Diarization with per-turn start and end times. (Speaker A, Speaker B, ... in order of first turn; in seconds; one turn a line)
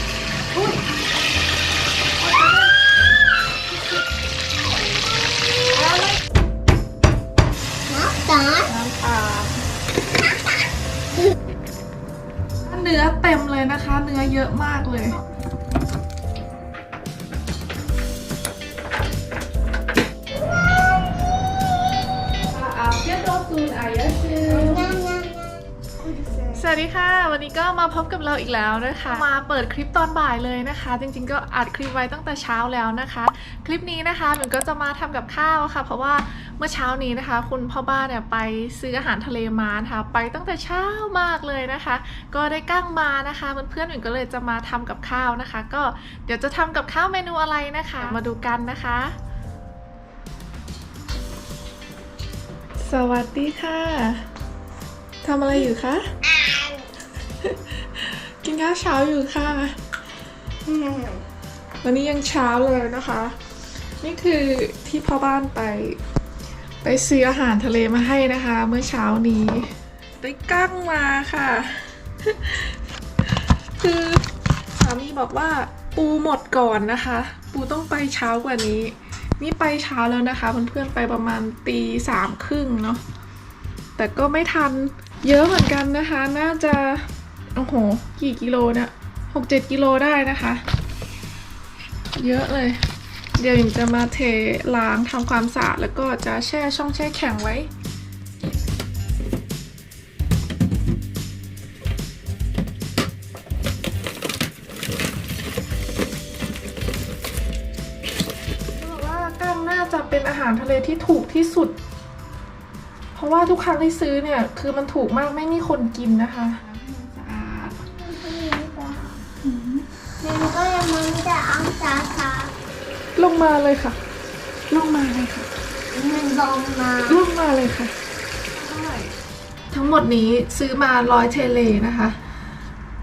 Speaker A: 2.2-2.7
Speaker A: 5.8-6.2
Speaker B: 7.9-8.7
Speaker A: 8.7-9.6
Speaker A: 12.7-15.2
Speaker A: 22.5-24.9
Speaker B: 24.5-26.7
Speaker A: 26.6-49.2
Speaker A: 52.8-54.2
Speaker A: 55.2-56.0
Speaker B: 56.2-56.9
Speaker A: 57.4-59.8
Speaker B: 60.6-61.2
Speaker A: 61.8-63.4
Speaker A: 64.0-66.0
Speaker A: 66.8-74.2
Speaker A: 74.8-83.0
Speaker A: 84.0-90.6
Speaker A: 92.2-92.8
Speaker A: 93.4-97.7
Speaker A: 108.8-111.7
Speaker A: 113.2-117.8
Speaker B: 118.0-119.2
Speaker A: 119.4-119.9
Speaker B: 120.2-122.5
Speaker A: 123.2-124.0
Speaker A: 124.7-125.5
Speaker B: 125.9-127.2
Speaker A: 127.1-127.9
Speaker A: 128.6-129.2
Speaker A: 129.7-132.2